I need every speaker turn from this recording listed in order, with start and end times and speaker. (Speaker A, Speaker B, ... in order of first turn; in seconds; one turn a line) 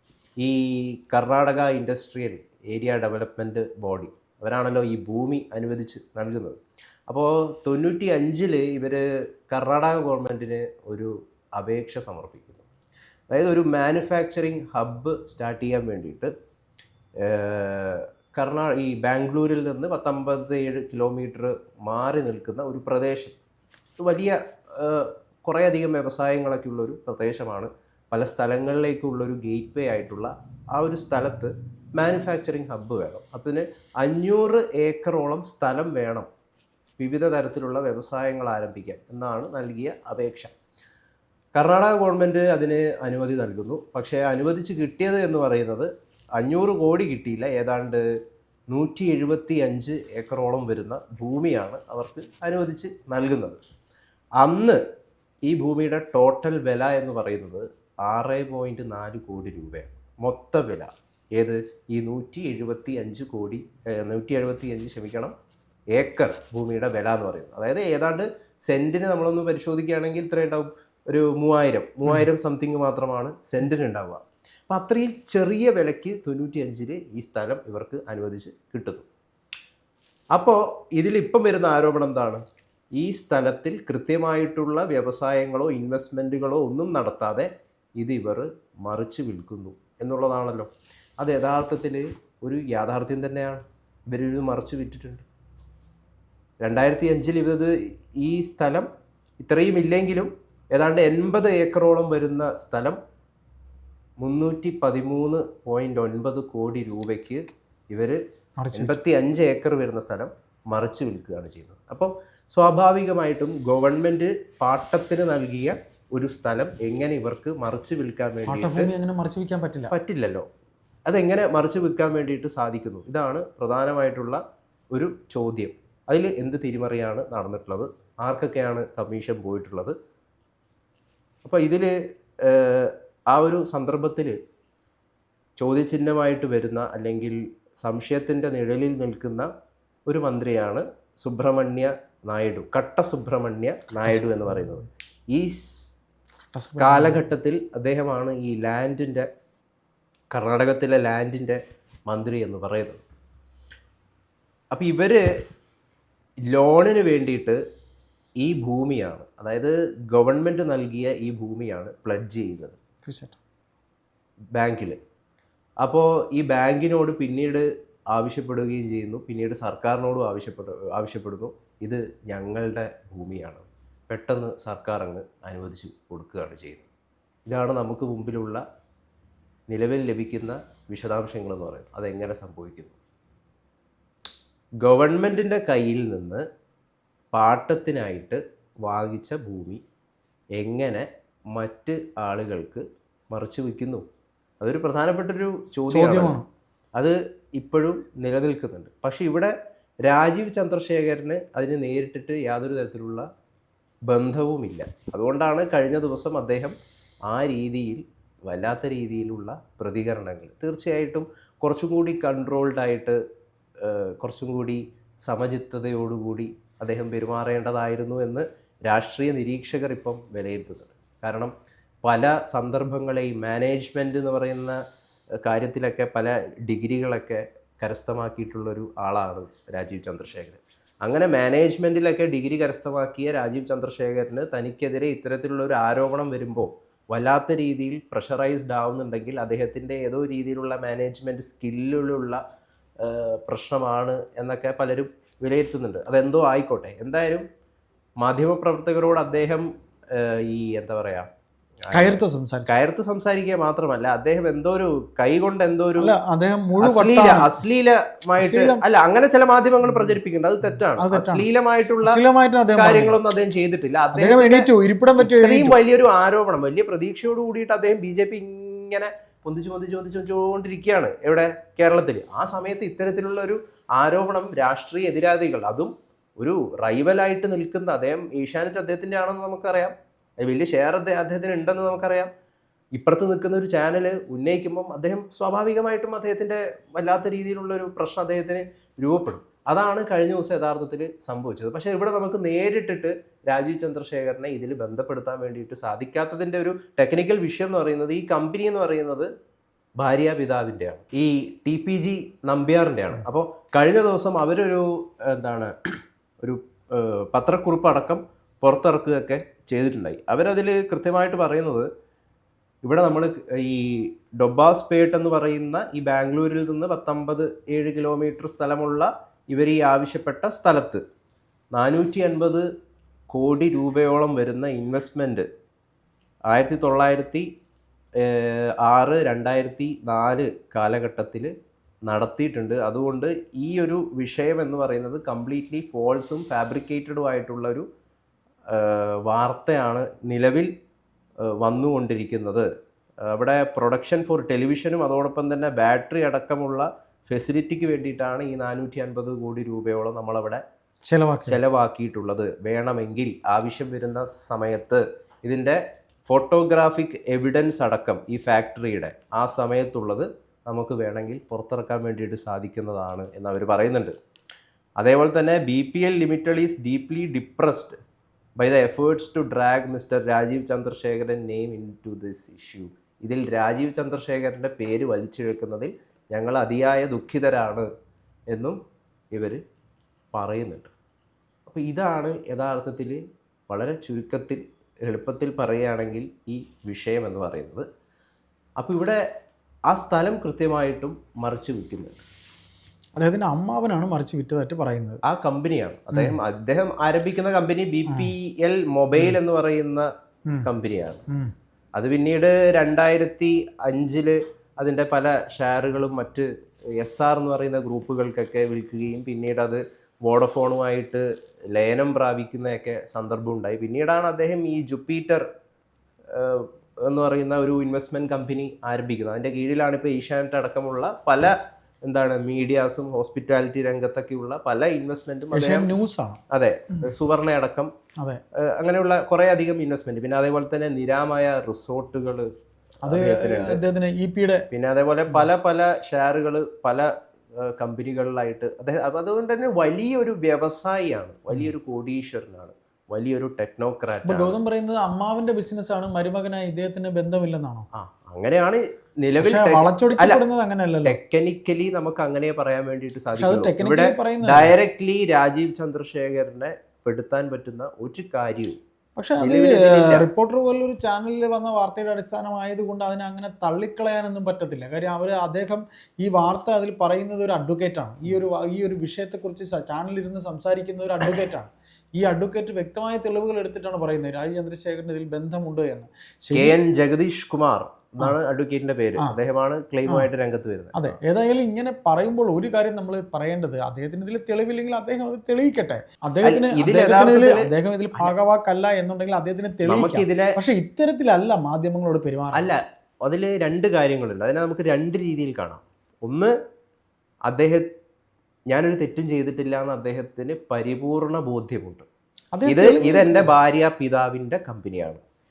Speaker A: 0.4-6.6
Speaker A: 7.1-12.7
Speaker A: 13.3-16.3
Speaker A: 17.2-23.4
Speaker A: 24.0-36.3
Speaker A: 37.0-40.5
Speaker A: 41.5-48.0
Speaker A: 48.7-53.6
Speaker A: 54.4-54.8
Speaker A: 55.5-65.3
Speaker A: 65.9-79.0
Speaker A: 80.3-82.4
Speaker A: 83.0-95.2
Speaker A: 96.6-98.9
Speaker A: 99.4-103.0
Speaker A: 104.2-108.2
Speaker B: 108.6-109.0
Speaker A: 108.7-118.9
Speaker B: 118.5-119.9
Speaker A: 119.9-120.5
Speaker A: 121.1-124.4
Speaker A: 124.9-129.9
Speaker A: 131.4-134.4
Speaker A: 135.6-139.5
Speaker A: 140.1-149.3
Speaker B: 144.1-144.8
Speaker B: 146.6-147.3
Speaker A: 150.3-153.0
Speaker A: 154.7-155.2
Speaker A: 156.5-157.6
Speaker A: 158.4-162.8
Speaker B: 163.0-163.4
Speaker A: 164.6-165.0
Speaker A: 165.8-176.9
Speaker A: 177.5-178.6
Speaker A: 179.7-183.0
Speaker A: 184.8-186.4
Speaker A: 187.3-189.8
Speaker A: 190.6-194.0
Speaker A: 194.6-196.4
Speaker B: 195.9-196.4
Speaker A: 197.0-203.2
Speaker A: 204.1-206.7
Speaker A: 207.3-213.2
Speaker A: 213.8-221.5
Speaker A: 222.0-224.8
Speaker A: 225.4-242.4
Speaker A: 243.0-247.4
Speaker A: 248.2-251.3
Speaker A: 251.8-256.1
Speaker B: 251.9-252.7
Speaker B: 256.0-257.5
Speaker A: 256.8-262.2
Speaker B: 258.4-258.8
Speaker B: 261.0-261.4
Speaker B: 262.0-263.2
Speaker A: 262.7-282.3
Speaker B: 264.1-265.8
Speaker A: 283.0-299.3
Speaker A: 300.0-305.7
Speaker A: 306.4-311.9
Speaker A: 312.8-321.0
Speaker A: 321.7-322.6
Speaker A: 323.3-325.5
Speaker A: 326.5-327.5
Speaker A: 328.2-331.5
Speaker A: 332.1-337.9
Speaker A: 338.7-340.7
Speaker A: 341.6-342.7
Speaker A: 343.3-350.6
Speaker B: 351.1-351.6
Speaker A: 351.5-364.1
Speaker A: 365.0-368.0
Speaker A: 368.6-377.9
Speaker A: 378.5-378.8
Speaker A: 379.3-379.6
Speaker A: 380.3-380.9
Speaker A: 381.7-387.9
Speaker A: 388.8-389.2
Speaker A: 389.9-392.2
Speaker B: 393.2-395.2
Speaker A: 395.3-400.1
Speaker B: 396.1-396.4
Speaker A: 400.6-401.2
Speaker A: 402.0-415.4
Speaker A: 416.3-421.5
Speaker A: 422.1-425.9
Speaker B: 425.5-426.4
Speaker A: 426.5-427.9
Speaker A: 428.6-432.5
Speaker B: 433.1-434.7
Speaker A: 433.1-433.8
Speaker A: 434.7-444.6
Speaker B: 444.2-447.9
Speaker A: 447.9-450.4
Speaker B: 449.4-451.2
Speaker A: 451.1-458.8
Speaker B: 453.4-454.7
Speaker B: 459.2-476.8
Speaker A: 459.4-460.3
Speaker A: 476.5-481.1
Speaker B: 480.9-492.7
Speaker A: 486.4-488.3
Speaker A: 489.9-490.6
Speaker A: 492.5-496.5
Speaker A: 497.5-497.9
Speaker A: 498.7-502.1
Speaker B: 502.5-503.5
Speaker A: 502.7-505.2